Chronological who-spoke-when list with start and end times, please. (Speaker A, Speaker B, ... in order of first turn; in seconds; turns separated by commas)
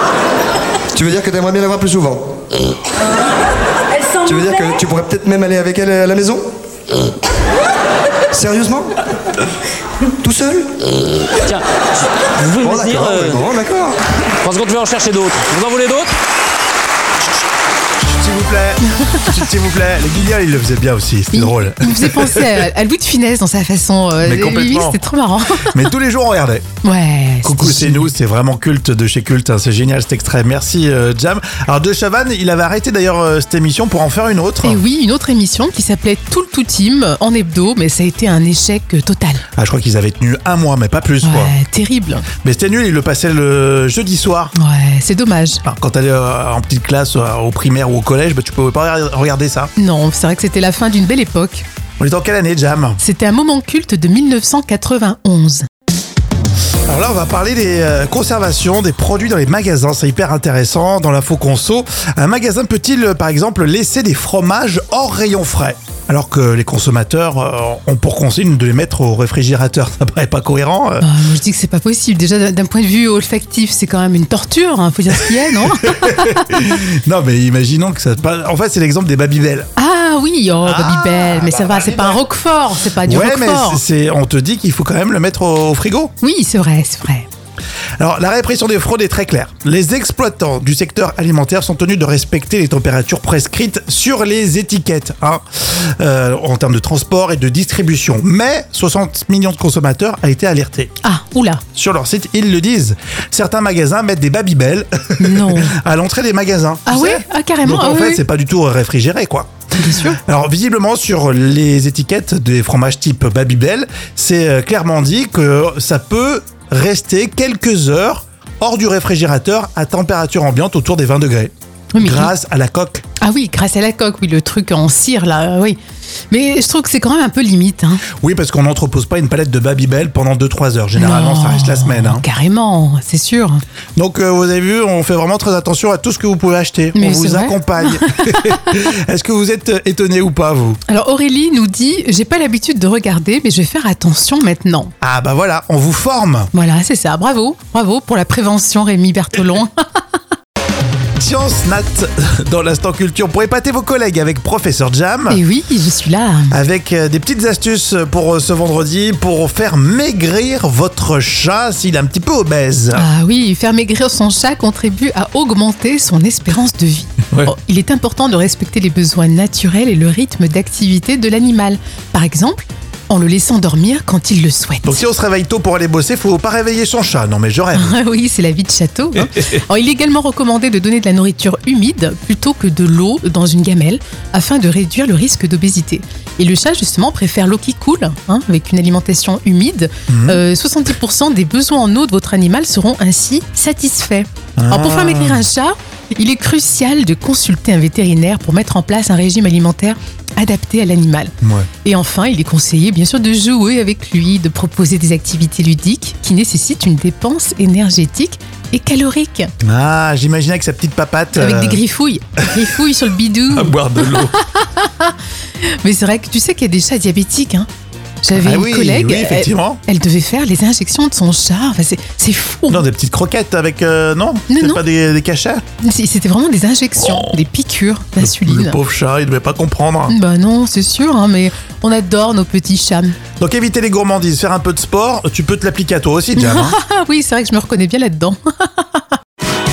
Speaker A: 0.9-2.3, Speaker A: 4.2-6.5, Speaker A: 8.3-8.9, Speaker A: 10.2-10.7, Speaker B: 12.2-13.4, Speaker A: 12.6-14.2, Speaker B: 14.4-16.1, Speaker C: 18.0-22.6, Speaker D: 21.3-25.8, Speaker C: 24.2-25.0, Speaker C: 25.7-26.6, Speaker D: 26.8-28.1, Speaker C: 27.4-34.8, Speaker D: 34.6-39.4, Speaker C: 39.6-41.5, Speaker D: 41.2-42.3, Speaker C: 42.4-44.5, Speaker D: 44.6-45.6, Speaker C: 45.6-49.7, Speaker D: 49.8-51.7, Speaker C: 52.0-53.0, Speaker D: 53.0-55.7, Speaker C: 56.9-71.1, Speaker D: 71.0-76.5, Speaker C: 75.6-79.7, Speaker D: 79.8-83.8, Speaker C: 80.6-82.2, Speaker C: 83.0-86.1, Speaker D: 86.2-87.3, Speaker C: 88.0-100.9, Speaker D: 101.0-101.7, Speaker C: 101.7-109.5, Speaker D: 105.2-105.8, Speaker D: 106.9-108.2, Speaker D: 109.8-110.2, Speaker C: 110.1-123.0, Speaker D: 122.0-122.3, Speaker D: 123.2-125.8, Speaker D: 126.3-128.1, Speaker C: 128.1-132.2, Speaker D: 130.9-133.6, Speaker C: 134.0-140.8, Speaker D: 136.9-138.5, Speaker D: 140.9-144.9, Speaker C: 145.0-146.5, Speaker D: 146.5-150.0, Speaker C: 151.2-155.4, Speaker D: 155.3-156.6, Speaker C: 156.5-163.1, Speaker D: 162.9-175.0, Speaker C: 174.8-178.0, Speaker D: 177.7-209.5, Speaker C: 190.1-190.4, Speaker C: 194.6-195.5, Speaker C: 201.4-201.7, Speaker C: 209.6-211.8, Speaker D: 211.3-217.7, Speaker C: 213.5-214.4, Speaker D: 218.2-222.8, Speaker C: 218.3-219.8, Speaker C: 222.7-225.6, Speaker D: 224.5-224.8, Speaker D: 225.8-228.8, Speaker C: 227.0-227.4, Speaker C: 228.2-230.2, Speaker D: 230.1-233.2, Speaker C: 233.4-236.8, Speaker D: 236.4-239.1